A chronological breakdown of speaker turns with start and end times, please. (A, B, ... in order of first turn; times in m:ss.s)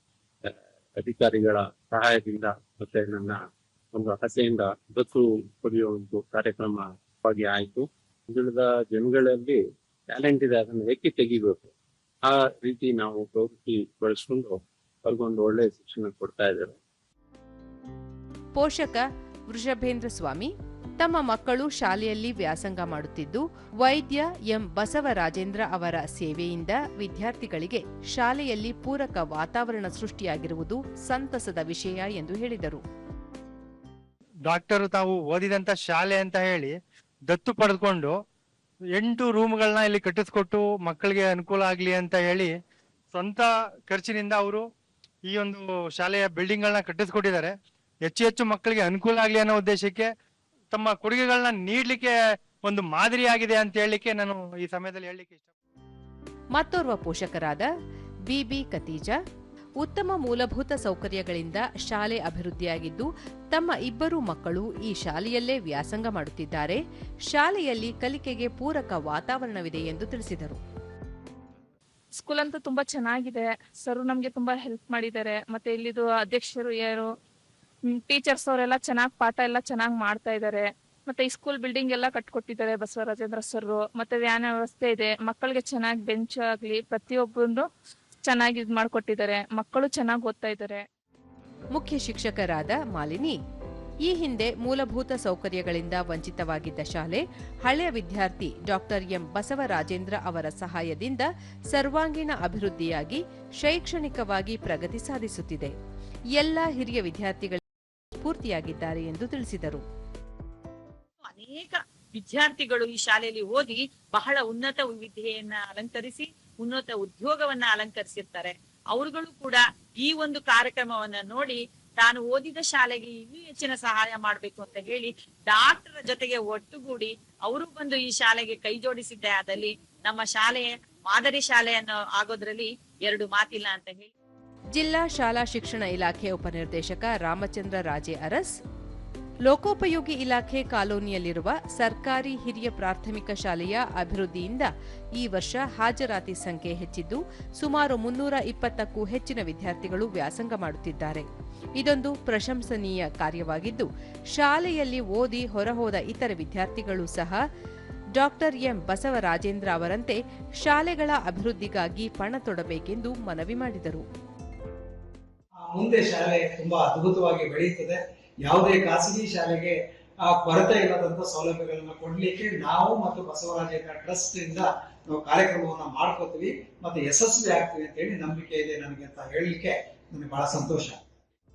0:00.4-0:11.7 A
0:12.2-0:16.8 A
0:18.6-0:32.8 B
0:34.5-0:36.8 C
0:37.3-0:38.2 C
0:39.0-0:42.6 C
0:43.1-0:44.6 C
0:45.3-0:47.5 C
0:48.1-0:50.1 C
0:50.7-0:55.5 C
0:56.6-0:57.7 B
0:58.3-0:59.2 B
0:59.8-1:06.8 B
1:07.3-1:10.6 B
1:12.2-1:17.1 D
1:17.9-1:27.6 D
1:28.2-1:30.8 D
1:31.8-1:33.4 B
1:34.1-1:45.7 B
1:46.4-1:47.6 B
1:48.2-1:49.8 B
1:51.3-2:14.1 E
2:14.8-2:18.5 B
2:19.5-2:24.7 B
2:25.2-2:31.2 B
2:31.8-2:37.4 B
2:38.2-2:44.0 B
2:45.7-3:01.0 F